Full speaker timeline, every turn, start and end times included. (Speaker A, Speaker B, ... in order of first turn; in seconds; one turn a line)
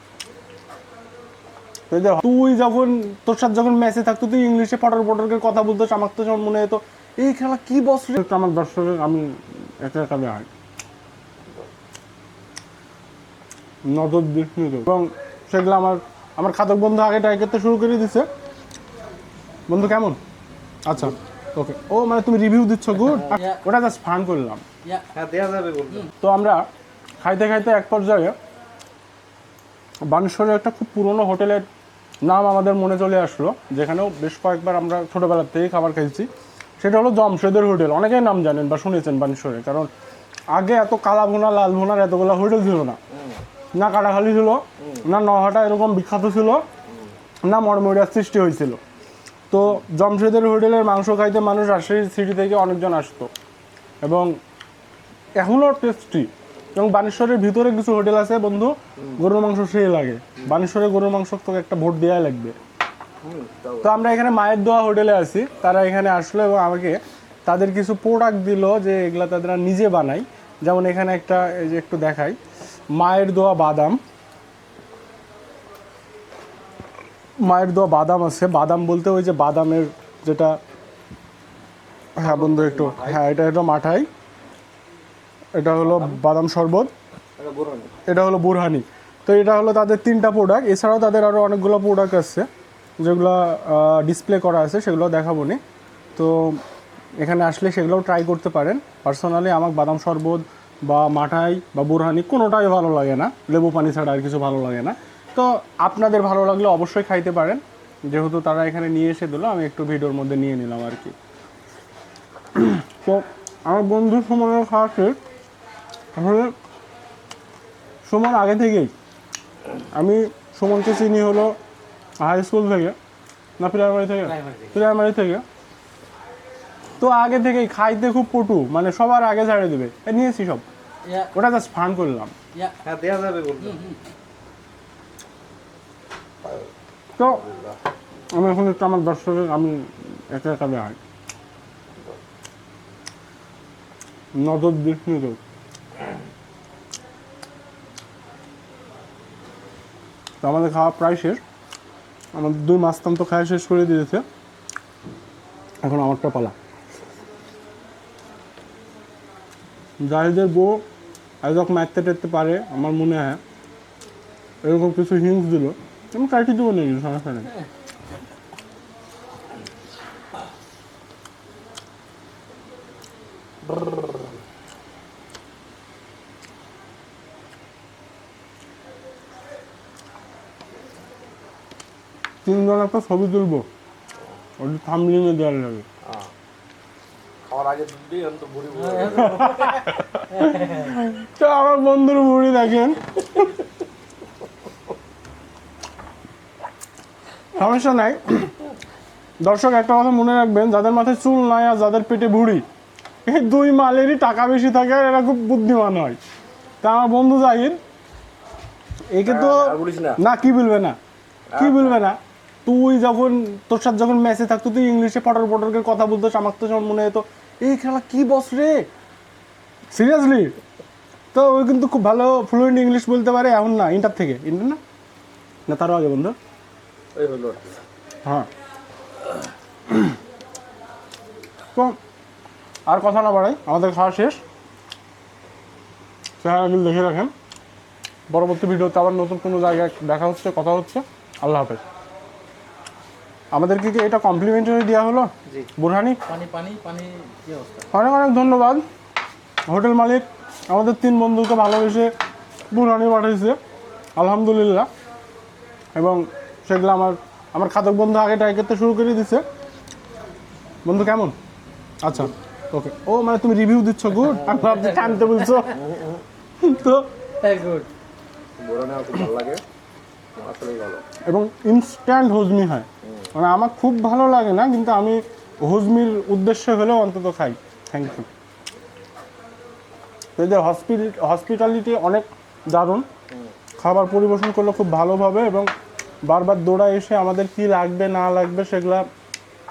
Speaker A: 1.9-10.5
Speaker A: 13.9-18.3
Speaker A: 19.7-20.2
Speaker A: 20.9-24.6
Speaker B: 23.1-23.4
Speaker B: 25.1-26.1
Speaker A: 26.2-26.6
Speaker A: 27.2-28.4
Speaker A: 30.1-31.7
Speaker A: 32.2-39.9
Speaker A: 40.5-43.0
Speaker B: 43.1-43.4
Speaker A: 43.8-46.6
Speaker B: 44.8-45.1
Speaker A: 47.5-48.8
Speaker A: 49.5-53.3
Speaker A: 54.0-54.3
Speaker A: 55.4-62.5
Speaker B: 63.2-63.9
Speaker A: 63.8-72.4
Speaker A: 73.0-74.0
Speaker A: 77.4-80.5
Speaker A: 82.2-84.1
Speaker B: 82.2-83.2
Speaker A: 85.6-86.9
Speaker B: 85.9-86.2
Speaker B: 87.4-87.9
Speaker A: 88.0-92.5
Speaker A: 93.0-95.6
Speaker A: 96.2-96.6
Speaker A: 97.2-111.2
Speaker A: 112.5-115.2
Speaker A: 116.2-116.5
Speaker A: 118.1-118.9
Speaker A: 119.9-121.5
Speaker A: 122.2-123.0
Speaker A: 123.6-125.4
Speaker A: 127.0-130.7
Speaker A: 131.3-132.3
Speaker B: 132.8-133.8
Speaker C: 133.6-134.0
Speaker A: 137.2-137.4
Speaker B: 137.2-137.8
Speaker A: 138.3-141.0
Speaker A: 144.3-145.4
Speaker A: 150.4-151.4
Speaker A: 152.3-154.2
Speaker A: 155.8-156.6
Speaker A: 160.0-160.8
Speaker A: 161.4-163.4
Speaker A: 164.6-167.5
Speaker A: 182.4-183.7
Speaker A: 184.6-185.9
Speaker B: 186.1-186.3
Speaker B: 187.5-189.7
Speaker C: 188.9-189.8
Speaker A: 189.4-193.3
Speaker C: 190.4-190.9
Speaker A: 197.6-198.5
Speaker A: 199.4-202.6
Speaker A: 203.3-206.2
Speaker A: 206.8-207.8
Speaker A: 209.1-211.0
Speaker B: 209.3-210.2
Speaker B: 211.5-212.0
Speaker A: 211.6-218.8
Speaker A: 219.9-220.5
Speaker A: 221.3-224.8
Speaker A: 225.7-226.3
Speaker B: 227.2-227.8
Speaker A: 232.9-234.4
Speaker A: 236.4-237.3
Speaker A: 238.3-241.8
Speaker A: 243.5-246.2
Speaker C: 246.3-247.9
Speaker A: 247.9-248.8
Speaker A: 249.7-252.1
Speaker A: 252.7-253.6
Speaker A: 254.2-254.9
Speaker A: 255.9-259.4
Speaker A: 260.9-261.4
Speaker A: 262.0-265.8
Speaker C: 264.7-265.0
Speaker B: 265.7-266.2
Speaker A: 266.6-267.1
Speaker C: 267.4-267.9
Speaker B: 268.6-269.6
Speaker B: 270.4-271.0
Speaker A: 271.3-278.3
Speaker A: 280.4-283.1
Speaker A: 283.8-285.7
Speaker A: 286.3-289.0